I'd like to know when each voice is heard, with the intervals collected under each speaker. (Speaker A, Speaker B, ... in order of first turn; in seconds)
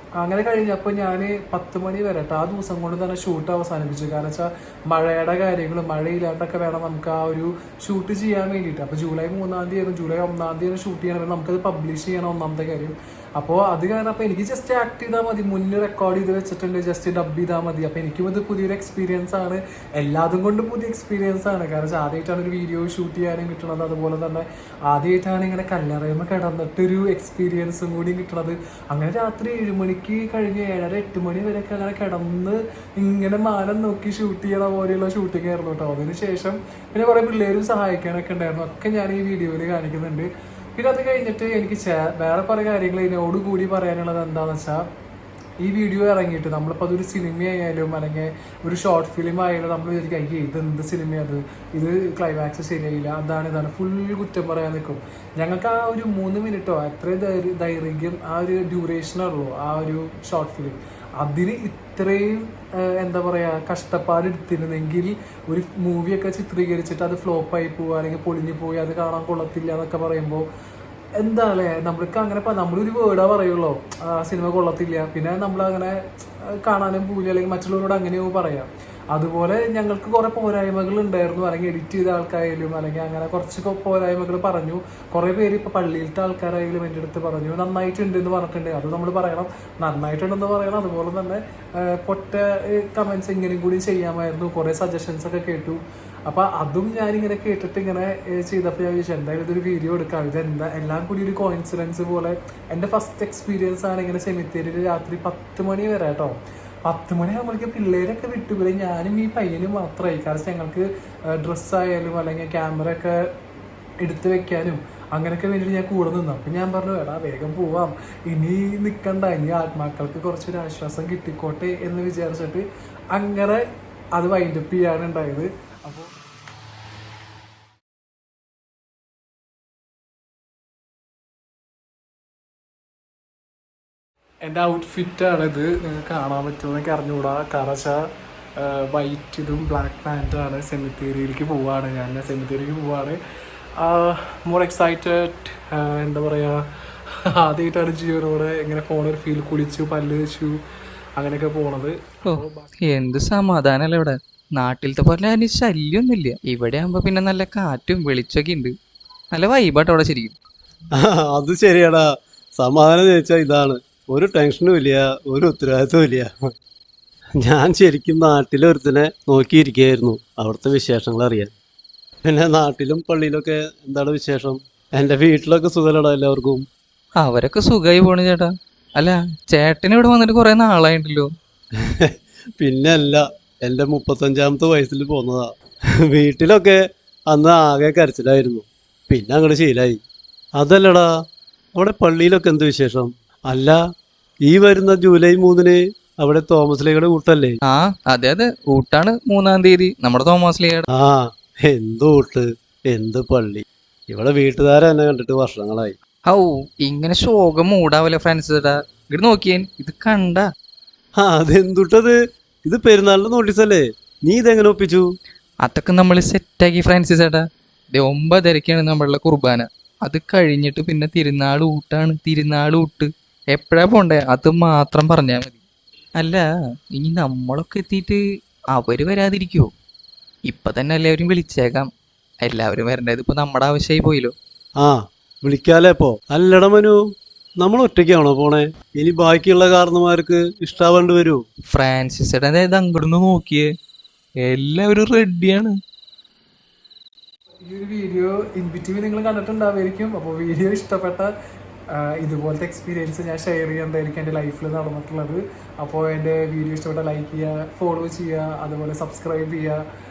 Speaker A: 0.2-44.8, 45.6-70.4, 71.2-76.0, 76.6-106.3, 106.8-113.2, 114.0-123.6, 124.2-126.1, 134.4-138.0, 138.6-143.2, 143.8-146.6, 147.4-150.6, 151.2-152.7, 247.7-251.3, 251.9-259.8
Speaker B: 152.3-158.7, 159.3-160.3, 177.2-181.3, 197.7-200.8, 206.3-210.4, 215.6-225.6, 226.2-226.4, 226.9-228.2, 228.7-229.7, 230.5-231.9, 232.4-234.3, 241.7-243.7, 244.4-245.8
Speaker C: 160.9-162.0, 162.6-166.3, 167.4-171.5, 172.3-176.6, 181.8-185.5, 186.1-186.8, 187.3-190.0, 190.6-191.1, 191.8-193.8, 194.4-197.6, 200.9-205.9, 211.2-212.2, 212.7-215.1, 234.8-237.0, 237.6-241.4